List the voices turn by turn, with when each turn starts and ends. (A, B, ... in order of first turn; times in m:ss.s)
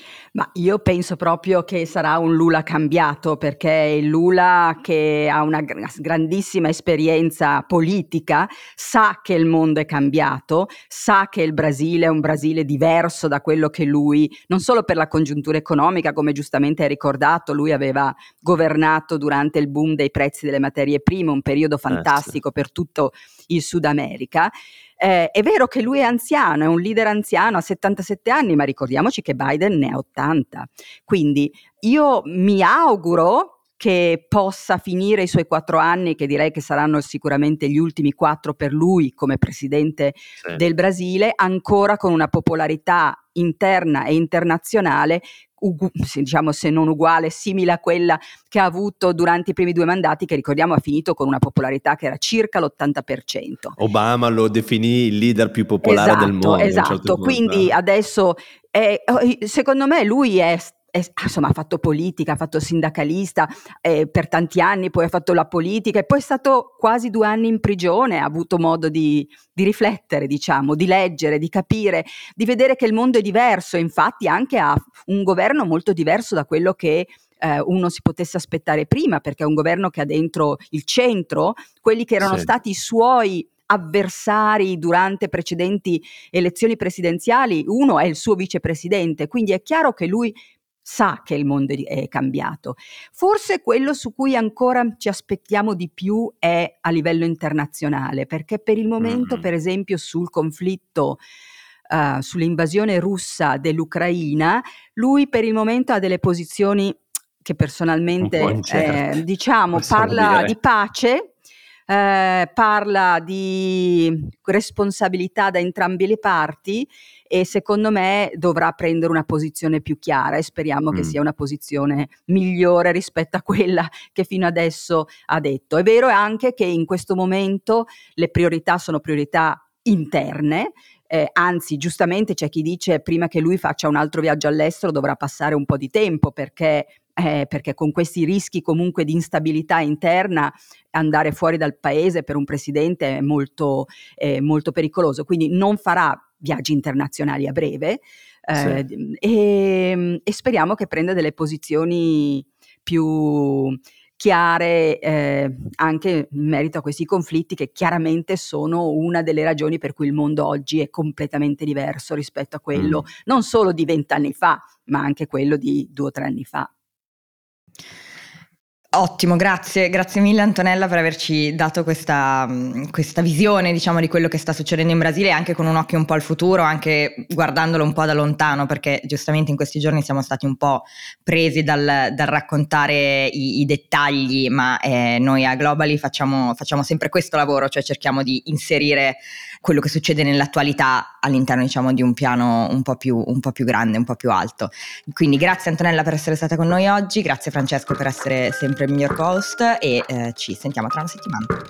0:00.3-0:53.8 A
0:21.9-0:22.4 B
0:53.8-0:57.7 B
0:55.8-1:41.2 A
1:22.2-1:22.5 B
1:39.0-1:39.5 B
1:41.9-1:51.3 A
1:48.2-1:49.2 B
1:49.7-1:50.6 B
1:51.9-2:46.7 A
2:00.9-2:01.2 B
2:28.6-2:28.8 B
2:42.7-2:43.0 B
2:49.0-3:21.6 C